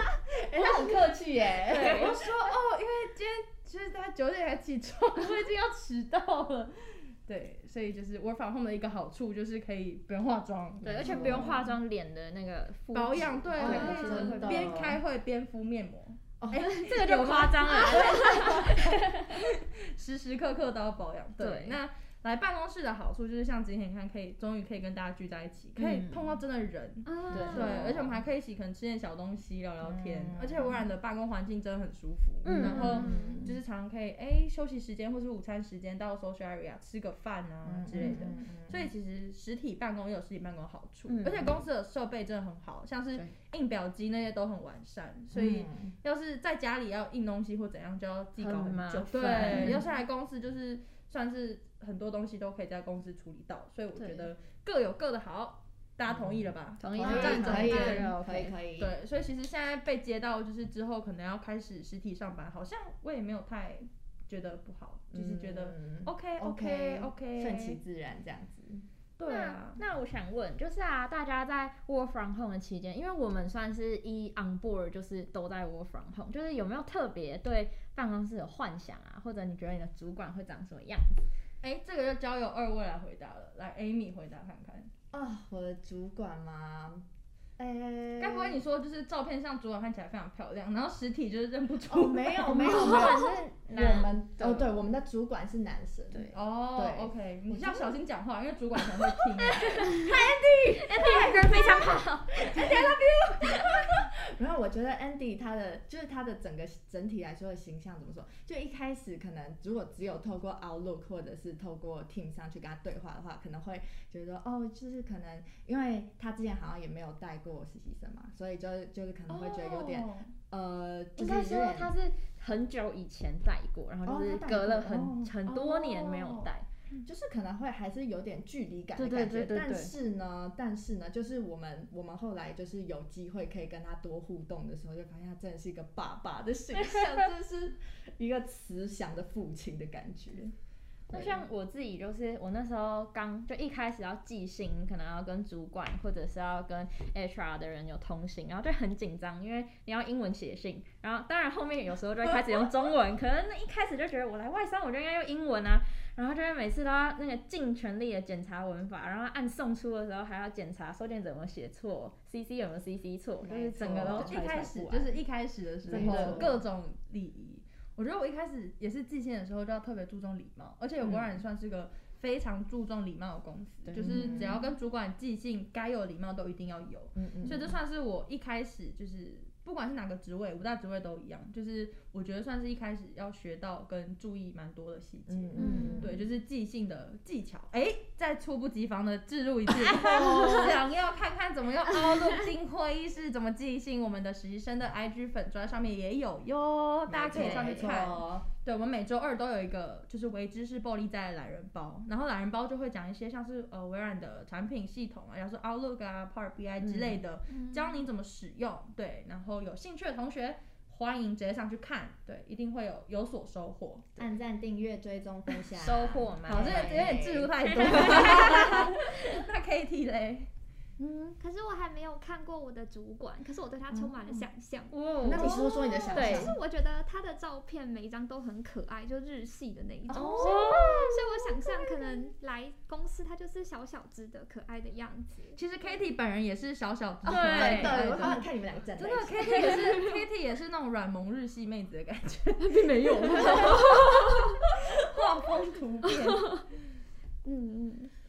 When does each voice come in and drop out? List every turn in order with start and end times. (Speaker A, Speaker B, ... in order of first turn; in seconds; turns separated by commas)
Speaker A: 0.3-2.1, Speaker B: 1.7-11.7, Speaker C: 1.8-2.1, Speaker C: 10.8-14.8, Speaker A: 11.0-11.7, Speaker B: 12.9-58.1, Speaker A: 13.6-15.0, Speaker D: 13.6-14.4, Speaker A: 16.4-16.7, Speaker C: 16.6-19.1, Speaker D: 17.9-18.7, Speaker C: 21.4-21.8, Speaker C: 25.8-26.4, Speaker D: 27.1-27.9, Speaker C: 27.3-28.1, Speaker A: 27.3-28.1, Speaker A: 29.8-30.9, Speaker C: 32.4-33.3, Speaker A: 32.5-33.6, Speaker D: 32.6-33.1, Speaker A: 37.6-38.9, Speaker C: 41.1-41.6, Speaker A: 45.3-45.9, Speaker C: 48.4-49.8, Speaker A: 49.4-49.8, Speaker C: 54.0-54.3, Speaker A: 56.1-58.9, Speaker C: 56.8-58.5, Speaker D: 57.0-58.0, Speaker B: 58.8-67.8, Speaker A: 65.1-68.8, Speaker B: 69.2-69.8, Speaker C: 69.2-81.2, Speaker B: 81.6-84.9, Speaker A: 85.1-87.0, Speaker A: 87.6-88.6, Speaker B: 88.2-92.9, Speaker A: 91.9-98.0, Speaker C: 92.5-94.7, Speaker B: 96.3-100.0, Speaker A: 99.6-121.9, Speaker C: 99.8-102.6, Speaker B: 102.5-103.7, Speaker B: 119.3-120.3, Speaker C: 121.2-126.7, Speaker A: 124.0-125.3, Speaker B: 125.4-127.0, Speaker A: 127.0-140.5, Speaker C: 128.9-129.9, Speaker C: 141.1-165.2, Speaker A: 141.1-141.5, Speaker B: 152.2-152.7, Speaker A: 163.4-164.4, Speaker B: 164.0-214.2, Speaker A: 165.8-166.6, Speaker C: 165.9-166.5, Speaker A: 171.0-171.4, Speaker A: 173.9-174.6, Speaker A: 177.2-177.8, Speaker A: 185.3-186.2, Speaker D: 185.6-186.1, Speaker C: 185.6-186.1, Speaker A: 197.1-198.5, Speaker C: 197.4-197.7, Speaker C: 206.8-207.2, Speaker D: 207.5-207.9, Speaker A: 214.2-218.4, Speaker C: 215.8-217.0, Speaker B: 216.5-220.5, Speaker C: 217.8-218.8, Speaker A: 221.0-221.3, Speaker D: 221.4-236.0, Speaker A: 223.9-224.5, Speaker C: 224.9-226.6, Speaker A: 225.2-226.6, Speaker C: 230.1-231.2, Speaker B: 230.1-231.0, Speaker B: 235.6-246.6, Speaker C: 237.2-238.4, Speaker A: 237.3-239.6, Speaker D: 243.2-244.6, Speaker D: 246.1-246.6, Speaker D: 247.4-248.1